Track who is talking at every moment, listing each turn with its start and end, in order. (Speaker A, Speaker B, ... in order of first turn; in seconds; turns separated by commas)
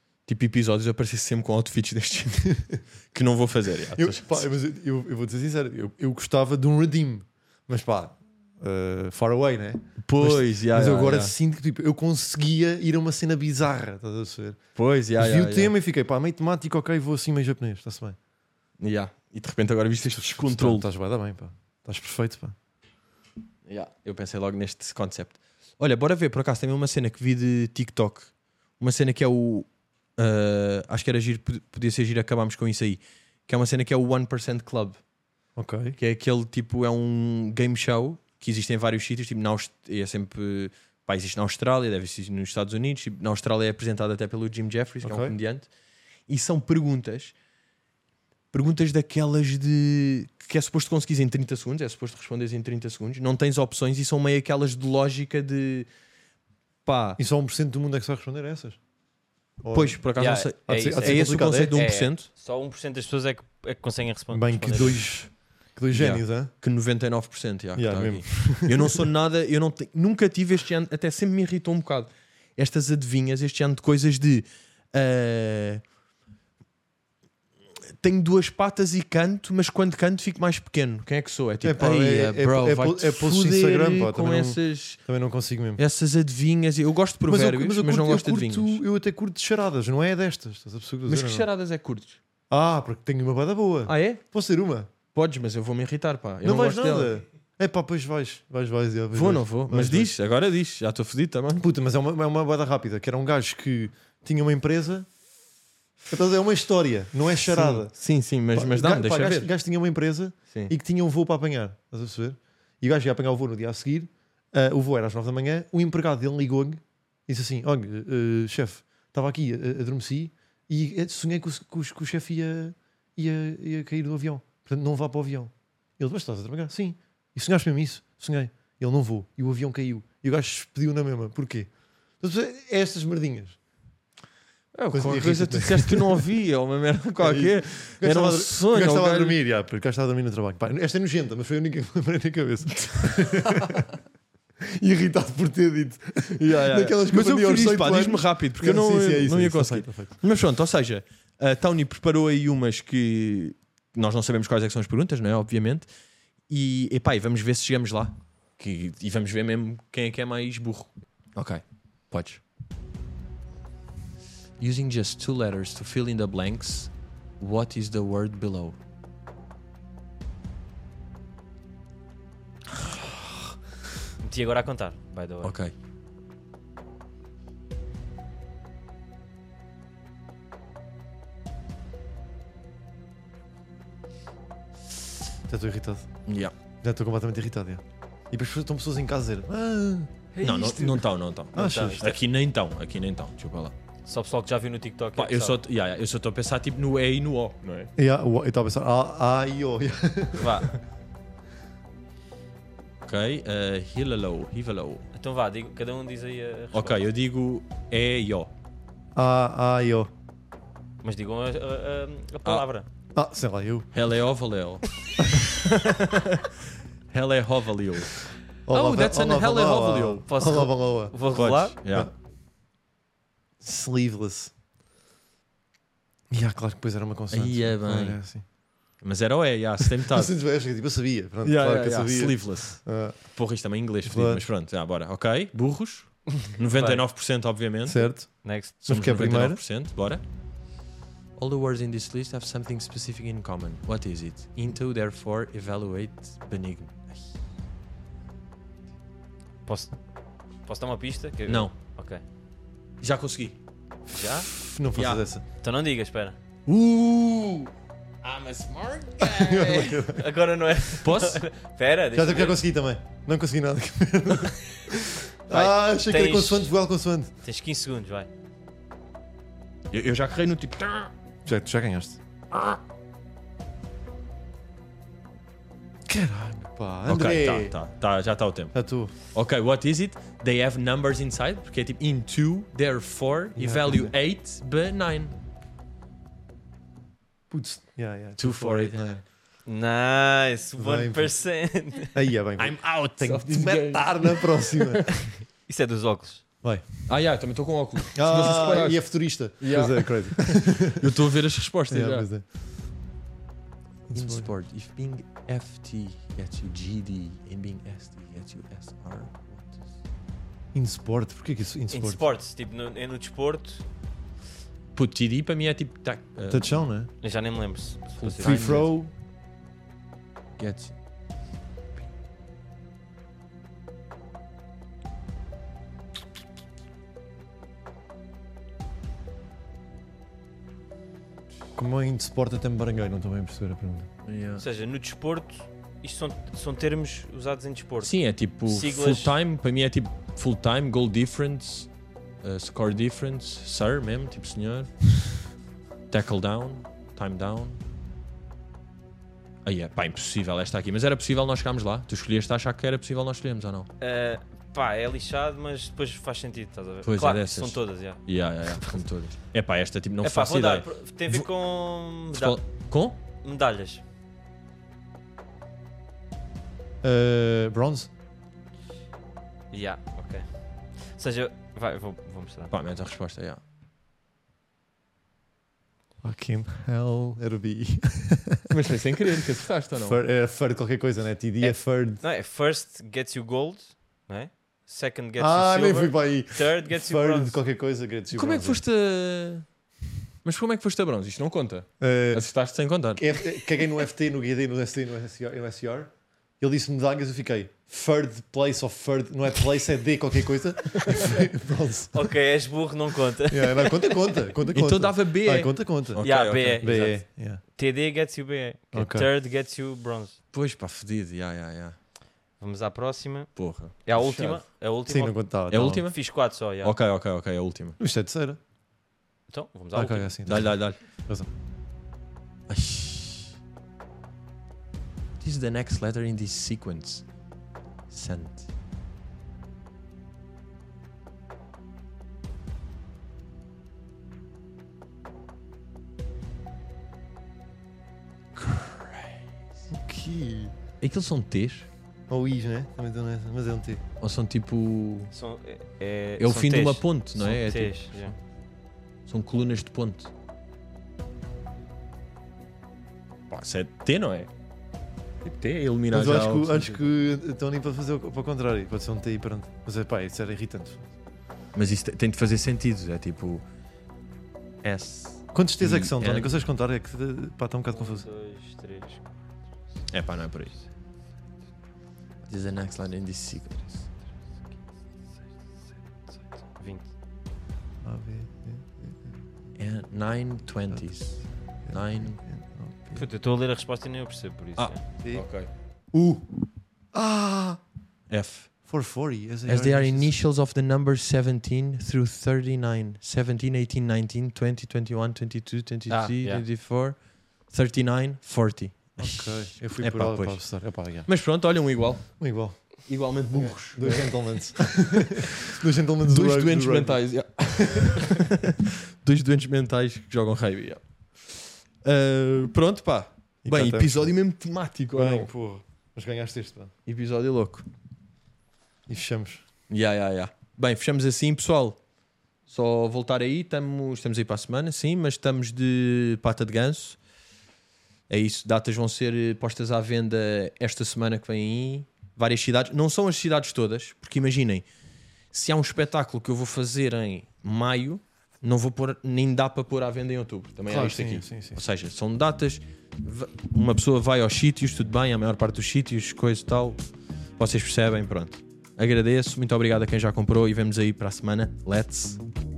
Speaker A: 0.2-4.5, Speaker B: 3.9-14.6, Speaker A: 10.0-11.3, Speaker A: 14.7-15.7, Speaker B: 15.1-18.2, Speaker A: 18.8-20.9, Speaker B: 20.1-22.6, Speaker A: 23.6-35.0, Speaker B: 35.5-36.0, Speaker A: 36.0-45.7, Speaker B: 45.0-45.3, Speaker A: 46.3-47.3, Speaker A: 48.5-55.9, Speaker A: 56.8-57.2, Speaker B: 57.2-58.8, Speaker B: 59.6-60.0, Speaker A: 59.7-62.3, Speaker C: 60.2-65.1, Speaker B: 60.6-61.8, Speaker B: 64.3-66.5, Speaker A: 65.9-75.8, Speaker B: 67.8-69.0, Speaker A: 78.0-85.0, Speaker B: 81.6-85.8, Speaker A: 85.8-88.8, Speaker B: 87.2-91.5, Speaker A: 91.1-92.2, Speaker B: 92.5-94.9, Speaker A: 93.8-94.2, Speaker A: 95.1-97.1, Speaker B: 96.4-100.1, Speaker A: 99.1-101.6, Speaker B: 101.6-105.1, Speaker B: 106.0-107.9, Speaker A: 107.4-109.5, Speaker B: 108.5-131.7, Speaker B: 132.2-133.6, Speaker A: 134.7-139.4, Speaker B: 134.9-136.2, Speaker B: 137.2-143.9, Speaker B: 144.6-150.2, Speaker A: 146.4-155.9, Speaker A: 156.5-162.4, Speaker A: 164.6-168.8, Speaker A: 172.8-173.2, Speaker C: 174.2-175.5, Speaker A: 175.4-175.7, Speaker B: 185.5-186.1, Speaker A: 186.2-186.5, Speaker B: 186.8-190.1, Speaker A: 190.4-193.7, Speaker C: 190.6-190.9, Speaker B: 191.5-192.0, Speaker C: 191.5-192.2, Speaker C: 194.1-195.6, Speaker A: 195.2-197.9, Speaker B: 197.9-200.7, Speaker C: 200.4-200.7, Speaker A: 203.0-205.0, Speaker C: 205.1-207.0, Speaker A: 206.7-208.5, Speaker B: 209.1-210.1, Speaker C: 211.0-212.9, Speaker B: 213.1-213.9, Speaker A: 213.9-214.8, Speaker A: 215.7-216.5, Speaker A: 217.1-220.2, Speaker B: 218.7-221.2, Speaker C: 220.3-221.8, Speaker A: 221.3-222.1, Speaker B: 223.6-224.5, Speaker B: 226.3-228.4, Speaker A: 227.3-228.2, Speaker A: 229.0-230.3, Speaker B: 229.8-233.2, Speaker A: 231.4-238.1, Speaker B: 234.0-234.4, Speaker C: 236.7-237.0, Speaker B: 237.9-239.6, Speaker C: 238.4-238.7, Speaker A: 238.8-240.2, Speaker A: 241.3-247.3, Speaker C: 249.7-250.0, Speaker C: 250.6-252.2, Speaker A: 251.5-251.7, Speaker A: 253.0-253.6, Speaker C: 254.1-254.5, Speaker B: 254.6-255.4, Speaker A: 254.9-255.2, Speaker C: 255.6-256.4, Speaker A: 256.7-257.6, Speaker A: 258.2-259.9, Speaker B: 259.2-260.3, Speaker C: 260.0-262.6, Speaker A: 261.0-261.4, Speaker B: 262.1-267.3, Speaker C: 265.5-266.7, Speaker C: 267.4-268.3, Speaker A: 269.9-271.1, Speaker B: 271.4-272.2, Speaker B: 276.1-277.7, Speaker A: 277.1-278.7, Speaker B: 278.7-279.1, Speaker A: 279.3-285.4, Speaker B: 283.6-284.1, Speaker B: 287.5-289.2, Speaker A: 288.4-289.1, Speaker C: 289.6-292.1, Speaker B: 290.8-291.3, Speaker B: 292.1-295.2, Speaker A: 292.6-295.1, Speaker C: 295.2-296.4, Speaker A: 297.1-299.0, Speaker B: 298.1-301.1, Speaker A: 299.6-302.3, Speaker B: 301.9-302.4, Speaker B: 304.1-304.5, Speaker A: 304.1-309.9, Speaker B: 310.7-312.2, Speaker C: 311.9-313.8, Speaker A: 314.9-316.7, Speaker B: 316.5-317.1, Speaker C: 317.2-318.8, Speaker A: 318.2-318.9, Speaker B: 318.4-319.1, Speaker A: 320.6-320.9, Speaker B: 331.8-334.1, Speaker A: 334.2-334.6, Speaker C: 334.6-339.4, Speaker A: 338.0-341.9, Speaker A: 342.4-344.9, Speaker A: 346.1-347.8, Speaker A: 349.6-353.9, Speaker C: 354.0-358.9, Speaker A: 357.0-361.5, Speaker C: 360.2-362.6, Speaker A: 362.3-363.2, Speaker C: 363.4-364.0, Speaker B: 367.0-368.1, Speaker C: 369.7-370.5, Speaker C: 371.0-372.7, Speaker A: 372.7-373.6, Speaker B: 376.2-378.7, Speaker A: 378.7-380.2, Speaker B: 380.0-382.2, Speaker C: 381.6-387.6, Speaker B: 385.4-388.8, Speaker A: 388.3-389.7, Speaker A: 390.4-393.4, Speaker B: 392.0-392.4, Speaker B: 393.2-402.3, Speaker C: 402.1-404.4, Speaker B: 403.5-407.6, Speaker A: 404.7-406.9, Speaker C: 406.2-410.4, Speaker B: 408.9-409.3, Speaker A: 410.5-411.9, Speaker C: 412.6-415.4, Speaker A: 413.6-414.6, Speaker B: 415.1-416.0, Speaker A: 415.7-416.2, Speaker C: 416.1-416.9, Speaker A: 416.8-418.0, Speaker B: 418.0-418.6, Speaker C: 419.5-420.3, Speaker B: 419.9-421.5, Speaker A: 420.5-421.0, Speaker A: 422.7-423.5, Speaker A: 425.4-427.3, Speaker A: 428.1-428.7, Speaker A: 438.6-439.4, Speaker B: 439.9-440.7, Speaker A: 441.0-441.9, Speaker B: 442.3-444.0, Speaker A: 444.2-445.3, Speaker C: 445.3-448.3, Speaker A: 446.4-448.3, Speaker A: 449.3-450.3, Speaker A: 453.5-454.5, Speaker A: 455.4-457.0, Speaker B: 456.1-461.0, Speaker A: 461.7-463.6, Speaker A: 464.8-466.6, Speaker B: 465.5-468.2, Speaker C: 467.9-469.2, Speaker A: 470.1-470.8, Speaker A: 472.5-474.0, Speaker C: 476.8-477.1, Speaker B: 478.0-479.3, Speaker A: 479.8-482.4, Speaker B: 481.8-483.2, Speaker C: 483.1-485.0, Speaker A: 484.8-485.7, Speaker B: 486.1-486.5, Speaker B: 487.1-487.8, Speaker A: 488.3-488.7, Speaker B: 488.8-490.4, Speaker A: 489.7-502.4, Speaker C: 496.1-496.6, Speaker B: 499.2-501.3, Speaker B: 502.4-503.0, Speaker A: 502.9-504.3, Speaker B: 503.5-507.2, Speaker A: 506.2-515.5, Speaker B: 507.8-508.5, Speaker B: 513.6-514.3, Speaker B: 515.1-516.9, Speaker A: 517.0-517.8, Speaker B: 519.1-519.6, Speaker A: 519.9-522.0, Speaker A: 522.7-527.2, Speaker A: 528.3-534.9, Speaker A: 535.5-547.0, Speaker B: 540.9-541.8, Speaker A: 547.6-552.4